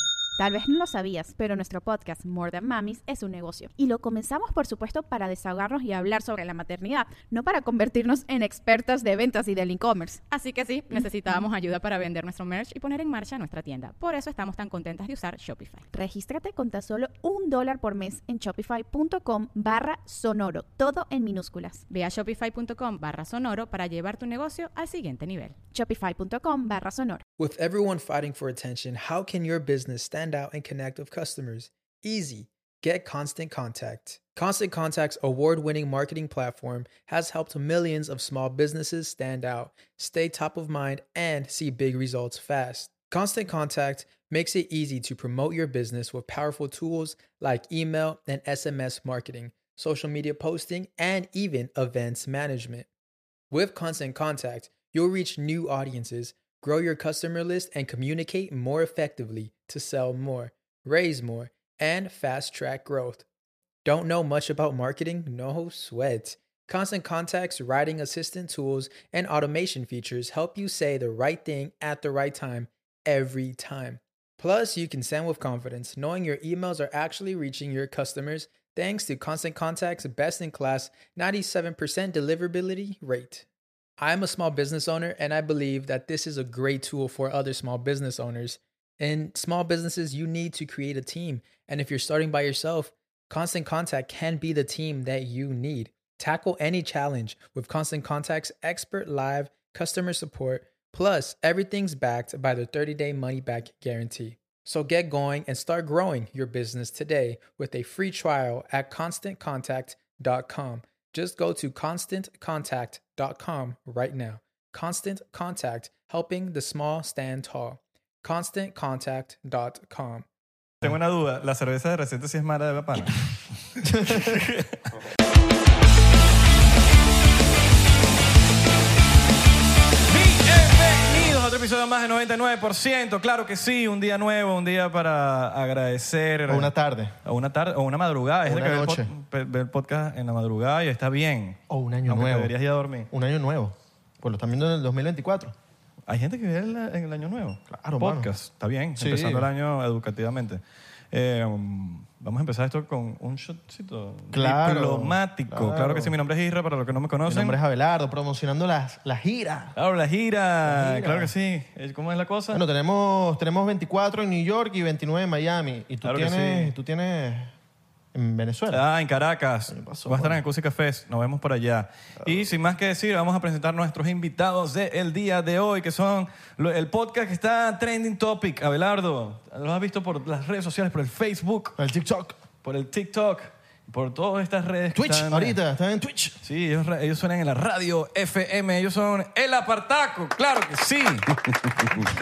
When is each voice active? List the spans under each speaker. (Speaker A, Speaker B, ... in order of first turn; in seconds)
Speaker A: 0.4-10.2, 15.9-21.8, 25.7-27.2
Speaker B: 10.3-15.9, 21.9-25.6
Speaker C: 27.4-52.9, 53.5-63.3, 63.9-83.5, 84.0-120.3
Speaker D: 120.8-123.2, 123.8-124.8, 130.1-143.1, 146.1-150.6, 151.1-157.6, 159.8-162.6, 166.0-166.7, 168.7-181.8, 182.6-185.6, 186.4-191.3
Speaker E: 123.8-124.1, 136.5-137.2, 138.5-139.1, 141.7-142.5, 143.1-145.6, 147.7-148.3, 149.0-149.5, 154.3-156.2, 157.2-159.8, 160.7-161.3, 162.5-167.5, 168.1-168.8, 169.7-170.4, 181.8-182.4, 184.9-186.4